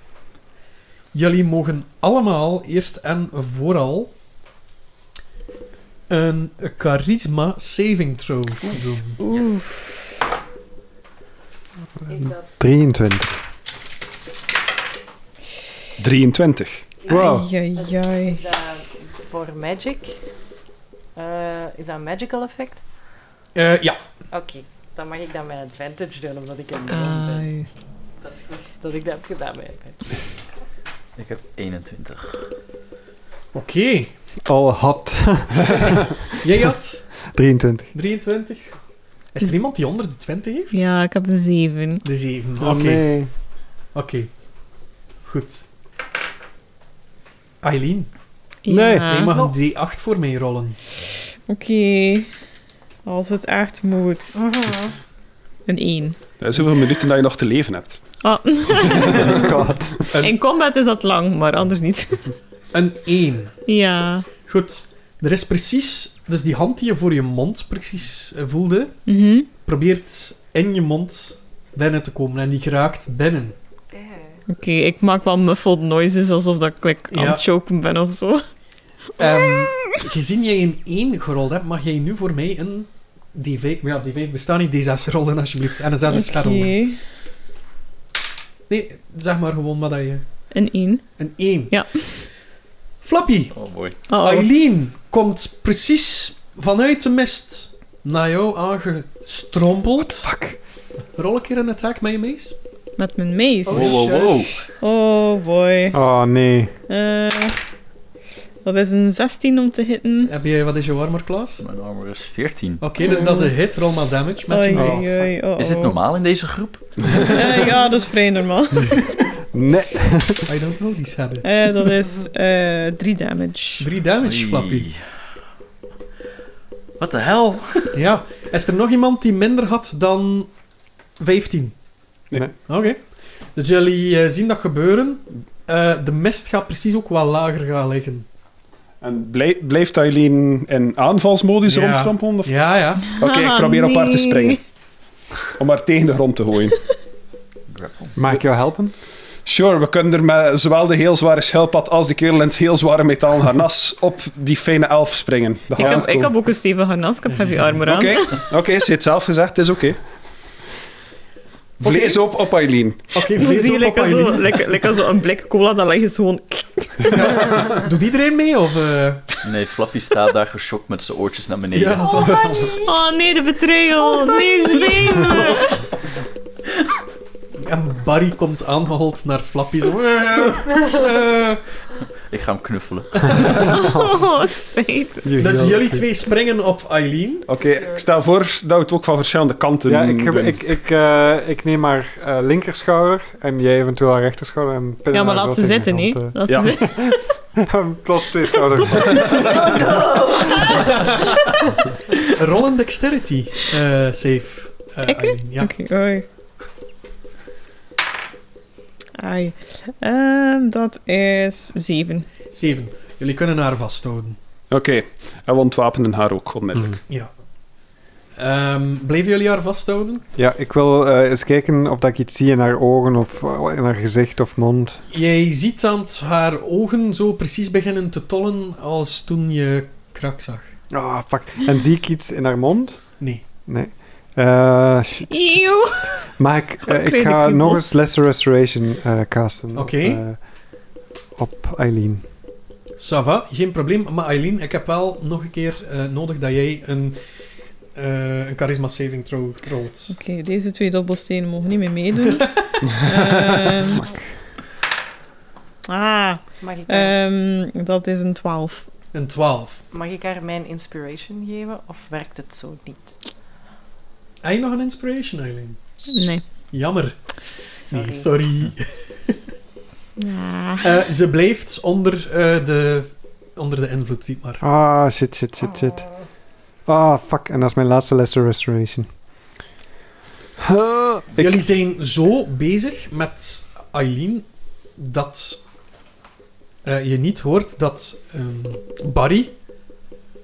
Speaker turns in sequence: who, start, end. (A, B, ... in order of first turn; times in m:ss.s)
0:01.1-0:04.1 A
0:06.1-0:09.2 A
0:09.2-0:09.9 B
0:12.1-0:12.6 C
0:12.1-0:13.4 D
0:16.0-0:16.9 E
0:17.0-0:20.2 C
0:17.1-0:18.4 B
0:17.1-0:17.4 D
0:21.2-0:22.8 C
0:23.6-0:24.0 A
0:24.3-0:27.5 C
0:26.9-0:27.7 B
0:28.2-0:30.2 C
0:31.2-0:32.5 F
0:33.5-0:34.1 A
0:34.4-0:36.2 D
0:36.4-0:37.1 A
0:37.3-0:37.9 D
0:37.9-0:38.8 A
0:39.3-0:40.8 A
0:40.7-0:42.0 B
0:42.0-0:43.1 A
0:42.6-0:43.3 D
0:43.9-0:44.3 A
0:45.2-0:45.6 A
0:47.6-0:48.1 A
0:48.6-0:49.4 B
0:48.7-0:49.1 D
0:49.0-0:50.8 A
0:51.5-0:52.3 B
0:53.0-0:54.4 B
0:54.4-0:55.0 C
0:55.7-0:56.2 B
0:56.4-0:58.0 E
0:58.2-0:59.6 B
0:59.1-1:00.0 D
1:00.2-1:02.3 B
1:02.7-1:03.6 A
1:03.7-1:04.3 B
1:04.5-1:09.0 A
1:09.1-1:09.5 B
1:09.6-1:13.6 A
1:13.9-1:14.4 C
1:14.5-1:18.4 B
1:17.1-1:17.4 A
1:19.2-1:26.8 A
1:19.2-1:19.9 B
1:26.1-1:27.0 B
1:28.7-1:30.3 A
1:30.5-1:31.1 B
1:31.2-1:32.2 A
1:31.7-1:32.1 B
1:33.0-1:33.6 A
1:33.5-1:34.0 F
1:34.1-1:34.5 B
1:34.1-1:40.3 A
1:40.0-1:40.6 D
1:41.2-1:42.6 A
1:43.0-1:44.1 B
1:43.7-1:44.4 A
1:43.7-1:44.5 F
1:44.7-1:46.0 B
1:45.9-1:46.7 D
1:46.9-1:47.6 B
1:48.6-1:50.3 B
1:50.2-1:51.6 A
1:51.6-1:52.8 F
1:52.8-1:55.2 A
1:53.0-1:53.6 B
1:54.5-1:56.0 B
1:54.8-1:55.3 D
1:55.6-1:57.4 F
1:57.2-1:59.1 B
1:59.5-2:00.5 D
2:00.5-2:01.7 A
2:01.4-2:03.9 B
2:03.8-2:04.9 A
2:04.2-2:05.1 F
2:07.0-2:08.0 F
2:07.9-2:10.5 A
2:11.2-2:11.8 A
2:12.6-2:13.0 A
2:13.5-2:18.3 A
2:19.0-2:24.6 E
2:21.7-2:23.0 A
2:23.2-2:24.6 B
2:25.6-2:26.8 E
2:27.7-2:28.2 F
2:28.2-2:28.9 D
2:29.4-2:36.4 E
2:35.8-2:38.5 B
2:35.8-2:36.1 D
2:37.8-2:40.0 E
2:41.8-2:43.1 E
2:41.8-2:42.2 A
2:43.1-2:44.6 A
2:43.3-2:47.5 B
2:47.1-2:49.3 A
2:49.4-2:52.3 F
2:51.7-2:52.7 A
2:52.1-2:52.7 C
2:52.8-2:55.9 B
2:54.3-2:55.6 C
2:57.6-3:01.6 A
3:02.3-3:03.8 F
3:03.5-3:05.3 B
3:03.7-3:04.3 D
3:05.2-3:06.1 D
3:05.4-3:07.5 A
3:07.5-3:10.6 E
3:09.9-3:19.8 D
3:15.1-3:17.4 B
3:16.5-3:16.9 E
3:19.6-3:21.1 C
3:22.2-3:25.7 A
3:25.0-3:26.3 B
3:29.2-3:32.3 B
3:32.5-3:34.4 A
3:34.7-3:37.0 E
3:38.4-3:40.2 A
3:40.4-3:45.0 D
3:45.1-3:50.8 A
3:50.9-4:00.4 D
3:55.3-3:56.3 B
3:56.9-3:58.0 B
3:59.8-4:00.2 A
4:01.4-4:02.2 D
4:03.0-4:07.2 A
4:08.0-4:10.2 A
4:10.1-4:14.1 B
4:15.9-4:18.9 B
4:16.6-4:17.2 C
4:19.1-4:19.8 A
4:19.9-4:23.2 C
4:24.4-4:25.8 A
4:26.1-4:26.4 B
4:26.7-4:29.4 A
4:27.9-4:28.3 C
4:30.2-4:31.0 B
4:30.8-4:34.6 A
4:34.6-4:36.1 D
4:35.7-4:36.1 C
4:36.9-4:39.1 D
4:40.6-4:41.6 D
4:41.3-4:45.6 A
4:46.8-4:49.6 A